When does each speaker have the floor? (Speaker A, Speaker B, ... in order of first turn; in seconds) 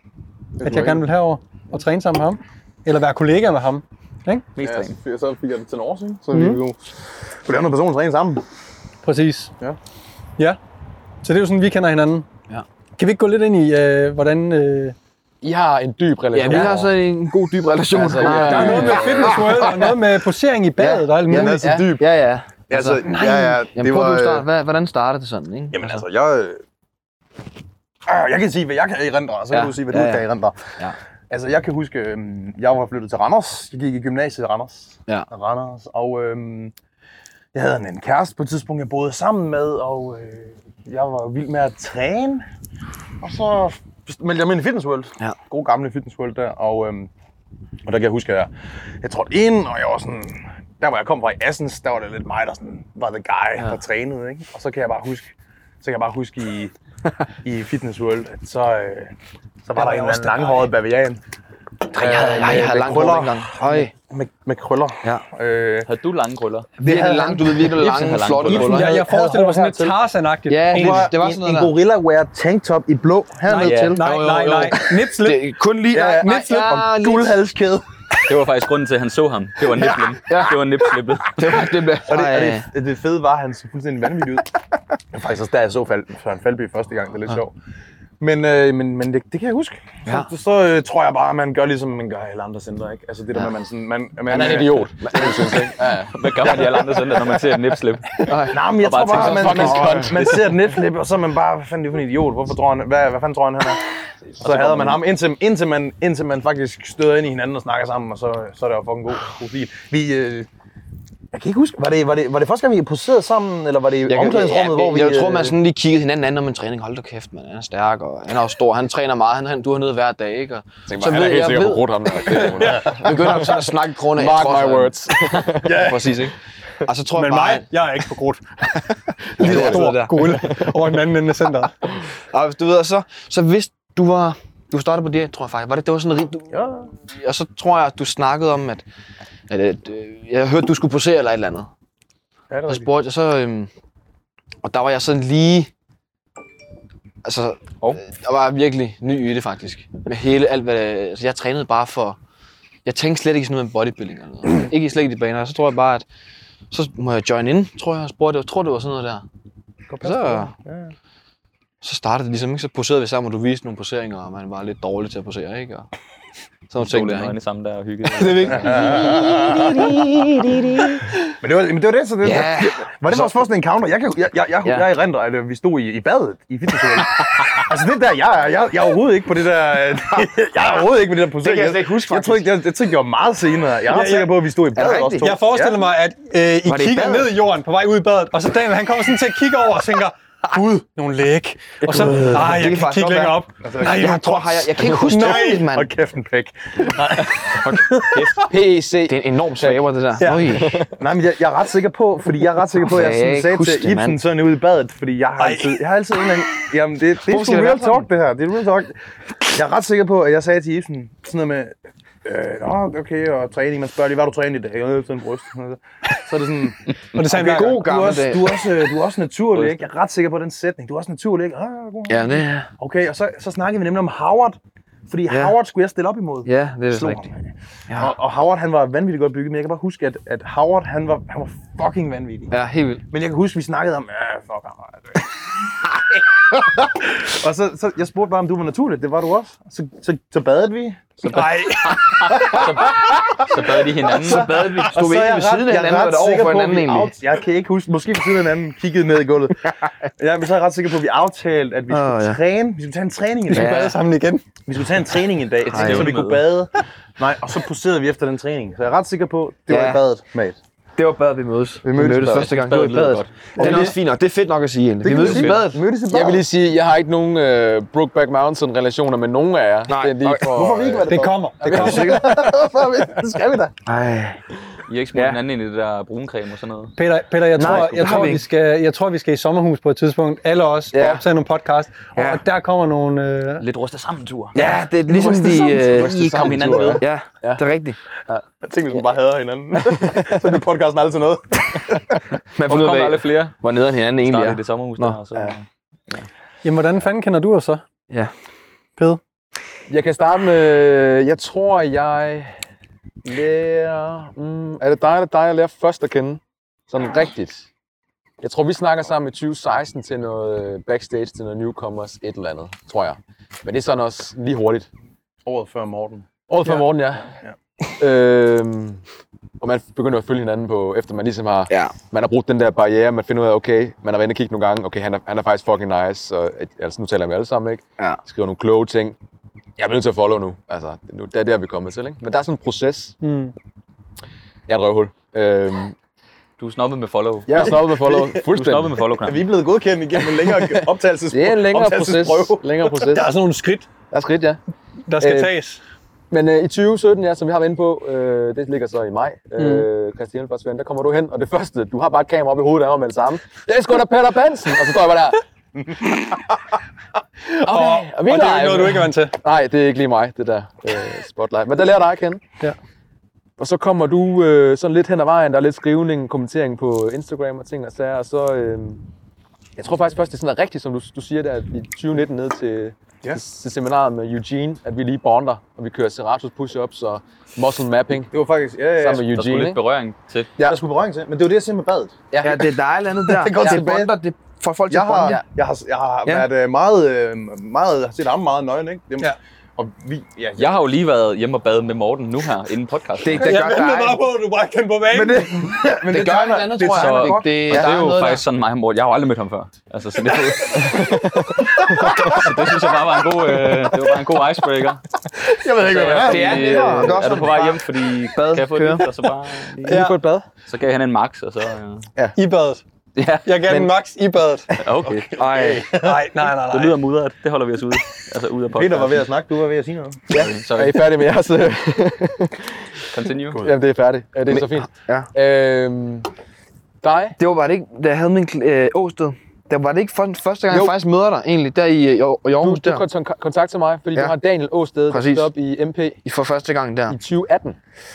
Speaker A: 0.6-1.0, 4.6-8.4, 18.5-18.8, 21.3-22.1, 22.7-24.5, 25.7-26.6, 28.1-30.7, 31.3-36.7, 37.5-42.4, 43.2-47.1, 47.9-48.5, 49.0-56.7, 57.4-59.1, 59.6-61.2, 61.9-65.9, 66.8-67.8, 68.4-70.0, 70.7-74.0, 75.9-77.8, 82.1-84.5, 85.1-87.5, 88.2-95.2, 98.5-103.8, 104.4-110.5, 111.3-115.6, 125.6-126.3, 136.5-136.9, 142.5-142.9, 159.9-160.9, 168.5-169.9, 171.4-185.8, 193.6-194.2, 195.1-198.3, 201.0-209.0, 209.5-232.6, 233.1-241.4, 242.2-253.9, 254.7-260.6, 261.8-262.6, 263.6-264.0, 265.0-266.4, 270.5-273.8, 288.6-292.1, 315.4-316.3, 337.6-338.4, 339.2-342.9, 378.3-379.2, 380.6-382.1, 383.3-384.2, 384.9-390.8, 395.1-397.9, 401.9-402.4, 405.4-407.3, 415.1-416.2, 418.7-420.3
Speaker B: 0.6-4.5, 6.3-6.6, 9.0-9.5, 11.2-12.3, 13.0-15.0, 18.2-21.7, 23.1-23.6, 59.8-60.7, 68.6-71.1, 73.5-75.4, 122.6-122.9, 127.1-128.4, 129.4-131.8, 183.9-184.4, 185.2-195.7, 200.2-200.7, 205.4-205.8, 217.2-217.8, 241.3-242.1, 253.5-254.4, 271.1-272.2, 277.0-283.6, 296.6-297.8, 333.2-333.5, 343.1-343.9, 345.1-345.8, 349.6-349.9, 357.6-359.4, 393.4-395.6, 409.9-410.3, 412.4-412.8, 413.4-414.7, 415.8-417.0
Speaker C: 4.6-5.0, 65.9-66.8, 67.7-68.9, 73.6-74.0, 78.3-81.7, 96.1-98.2, 98.8-99.9, 166.8-168.9, 241.3-244.9, 255.7-256.5, 262.3-263.9, 265.2-265.6, 274.9-276.9, 277.6-278.4, 283.6-284.6, 286.0-287.0, 292.7-293.6, 294.2-296.2, 336.6-339.5, 379.2-380.5, 390.6-393.6, 396.8-401.2, 402.0-405.0, 405.8-410.0, 410.7-412.1, 413.1-413.8, 414.8-415.4, 416.6-419.3, 420.3-421.0, 423.1-423.6
Speaker D: 15.4-16.9, 17.9-19.4, 21.6-21.9, 94.3-96.5, 99.1-100.5, 120.9-126.0, 129.4-130.5, 198.3-199.9, 200.5-200.9, 266.1-272.5, 280.9-281.2, 284.6-287.6, 290.0-290.3, 299.9-302.6, 303.2-307.7, 308.4-314.9, 316.5-317.3, 318.0-319.0, 319.6-329.2, 329.8-333.2, 334.7-336.0, 337.5-339.1, 341.3-343.3, 344.1-344.6, 345.2-345.5, 346.3-355.4, 357.6-362.4, 363.6-369.1, 369.8-378.3, 379.0-379.8, 382.3-382.7, 400.8-402.3, 409.9-410.4, 420.7-422.7, 423.6-426.3, 427.0-427.4, 430.7-430.9, 432.6-436.2, 437.1-437.8
Speaker E: 16.3-19.9, 20.8-26.0, 29.5-30.3, 61.9-63.9, 66.8-69.1, 70.5-71.7, 73.6-77.4, 80.3-80.6, 81.4-82.7, 98.3-100.0, 114.1-125.0, 125.6-127.7, 129.4-130.5, 132.3-136.5, 137.1-138.8, 139.5-141.7, 142.7-143.7, 144.6-145.7, 147.2-152.2, 152.8-156.1, 156.7-159.2, 160.0-160.5, 161.8-165.9, 166.7-167.3, 168.2-171.3, 172.2-173.3, 181.4-182.5, 184.8-185.3, 186.7-187.3, 191.9-195.9, 199.1-200.8, 202.8-204.2, 207.2-208.1, 217.3-218.7, 222.1-222.7, 225.3-225.6, 226.5-227.2, 227.9-228.2, 232.5-233.0, 244.2-247.1, 251.9-252.4, 253.5-253.9, 255.7-256.2, 259.7-260.0, 261.0-265.8, 269.9-270.6, 271.8-272.3, 273.9-274.4, 275.1-275.4, 277.6-278.4, 282.1-282.4, 284.6-288.0, 292.6-295.5, 321.7-321.9, 382.4-385.4, 393.2-394.2, 396.1-398.4, 406.1-407.8, 408.3-409.1, 415.4-415.9, 424.5-425.3, 427.4-433.0, 435.1-435.5, 436.2-437.2